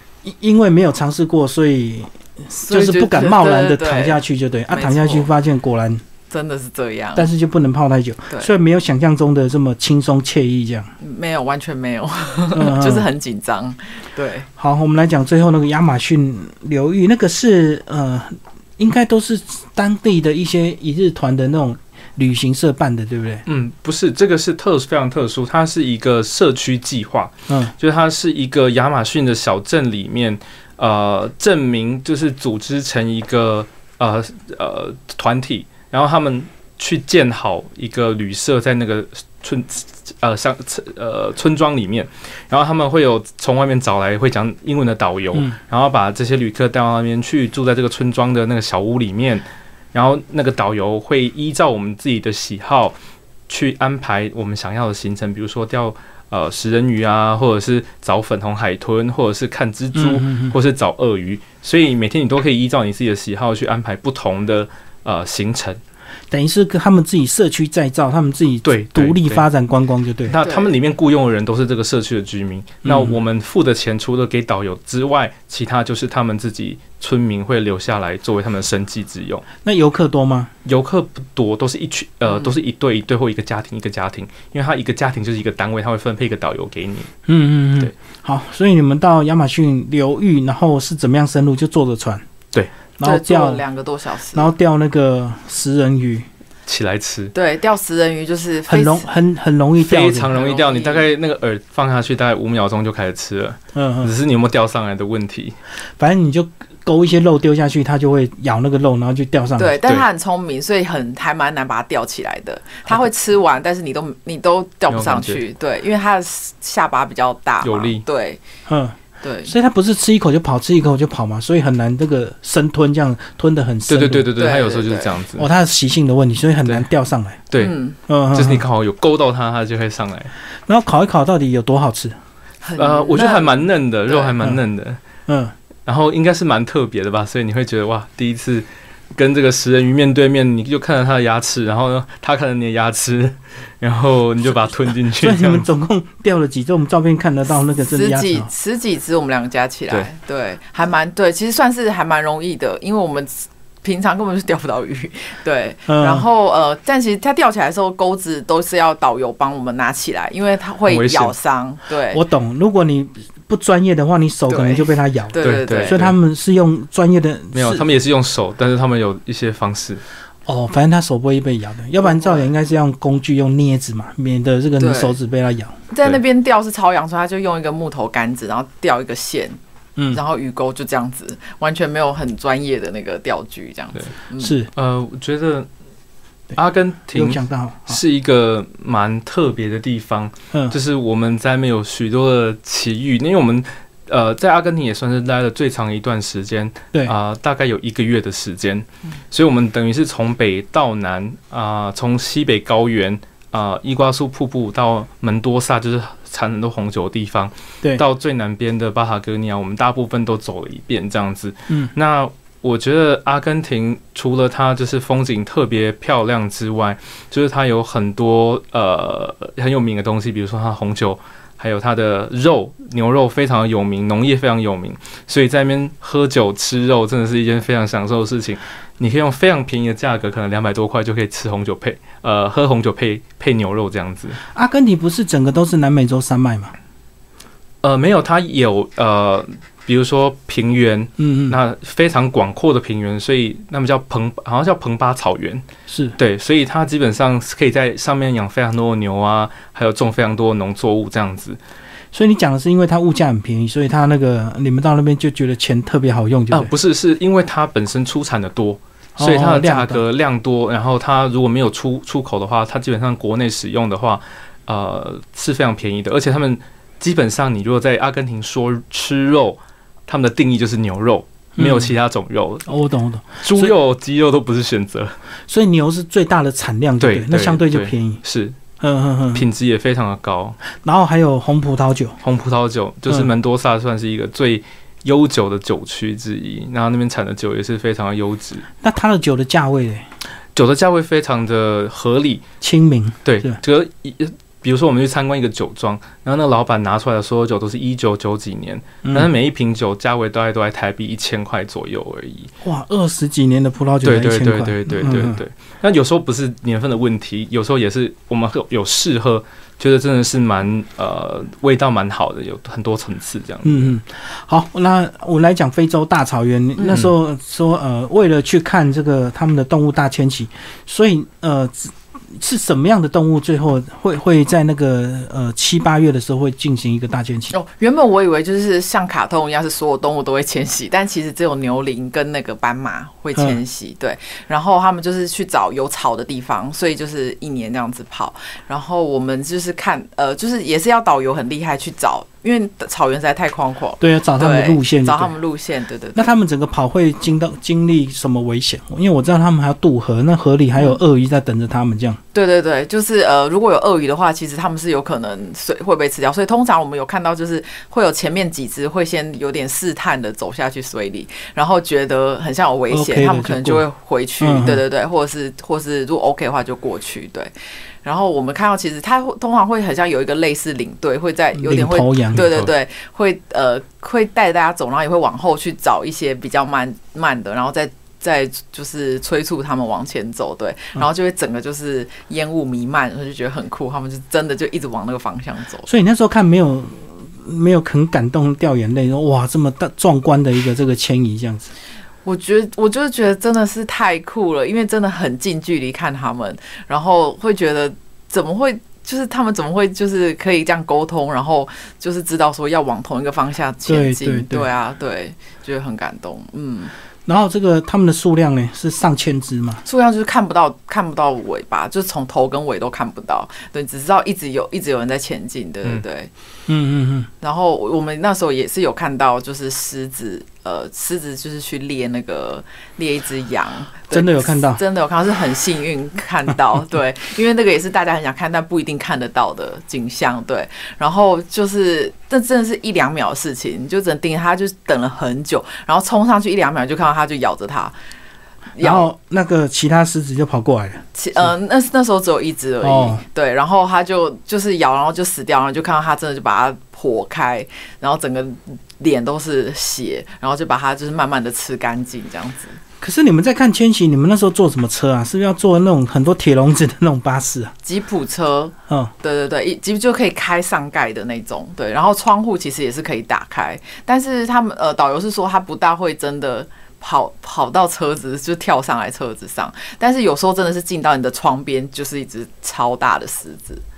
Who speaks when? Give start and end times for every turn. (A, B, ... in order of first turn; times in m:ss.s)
0:00.2-0:06.0 A
0:02.7-0:05.3 B
0:06.3-0:07.3 B
0:07.1-0:10.9 A
0:11.0-0:14.5 B
0:12.5-0:13.1 A
0:14.6-0:23.4 A
0:23.4-0:52.9 C
0:53.5-1:05.8 C
0:59.9-1:00.5 A
1:06.3-1:10.4 A
1:08.6-1:09.4 C
1:10.2-1:19.4 C
1:10.4-1:10.7 B
1:12.8-1:13.2 A
1:19.6-1:20.5 A
1:20.6-1:27.1 C
1:22.3-1:22.5 B
1:27.3-1:32.2 A
1:33.0-1:33.6 A
1:33.0-1:34.5 B
1:34.3-1:36.3 A
1:36.7-1:37.3 C
1:37.3-1:39.1 B
1:38.7-1:40.3 A
1:39.8-1:45.6 C
1:40.3-1:41.0 B
1:43.7-1:44.1 A
1:46.0-1:49.8 A
1:49.6-1:58.4 B
1:54.9-1:55.4 C
1:57.6-1:58.0 C
1:58.7-2:04.3 A
1:59.2-1:59.5 B
2:03.9-2:05.5 C
2:04.4-2:05.2 B
2:05.4-2:07.4 A
2:07.5-2:07.8 C
2:07.6-2:08.0 B
2:08.1-2:08.6 A
2:08.3-2:10.3 C
2:10.7-2:12.2 A
2:12.6-2:14.3 B
2:12.8-2:15.0 C
2:15.3-2:15.5 A
2:15.8-2:25.6 C
2:25.2-2:28.5 A
2:27.8-2:42.2 B
2:35.9-2:36.2 A
2:40.9-2:41.3 C
2:42.1-2:47.9 A
2:44.5-2:46.0 B
2:45.4-2:46.1 C
2:47.5-2:50.0 C
2:50.5-2:55.7 A
2:52.0-2:52.5 B
2:54.8-2:55.2 B
2:55.9-2:59.6 B
3:00.1-3:04.6 B
3:04.4-3:04.7 A
3:04.7-3:05.7 C
3:06.5-3:54.4 C
3:07.1-3:08.0 A
3:54.5-3:56.7 A
3:57.8-4:05.6 C
4:01.2-4:01.6 A
4:05.9-4:06.2 A
4:06.2-4:11.6 C
4:12.1-4:16.7 A
4:16.5-4:32.7 C
4:19.2-4:20.0 A
4:31.6-4:31.9 A
4:32.6-4:33.8 A
4:33.4-4:35.2 C
4:35.5-4:38.2 A
4:37.0-4:38.6 C
4:38.8-4:39.4 A
4:39.3-4:40.6 C
4:40.8-4:42.2 A
4:42.2-4:48.6 C
4:48.8-4:50.0 A
4:50.5-4:52.4 C
4:52.6-4:53.6 A
4:53.2-5:02.5 C
4:59.0-4:59.3 A
5:02.6-5:05.4 A
5:04.0-5:14.0 C
5:13.6-5:27.5 A
5:27.5-5:46.3 B
5:44.0-5:45.3 A
5:46.1-5:52.2 A
5:50.8-5:51.0 B
5:52.3-6:07.5 B
6:02.9-6:03.8 A
6:04.4-6:04.8 A
6:08.0-6:25.9 B
6:11.5-6:12.5 A
6:12.4-6:12.7 C
6:25.9-6:31.7 A
6:32.2-6:46.9 B
6:43.8-6:44.7 A
6:47.2-6:49.8 A
6:49.8-6:56.3 B
6:56.7-6:57.3 A
6:57.4-7:17.9 B
7:04.1-7:04.8 A
7:18.8-7:19.1 B
7:18.8-7:21.5 A
7:21.1-7:32.8 B
7:22.8-7:23.2 A
7:33.0-7:37.7 A
7:37.8-7:53.8 B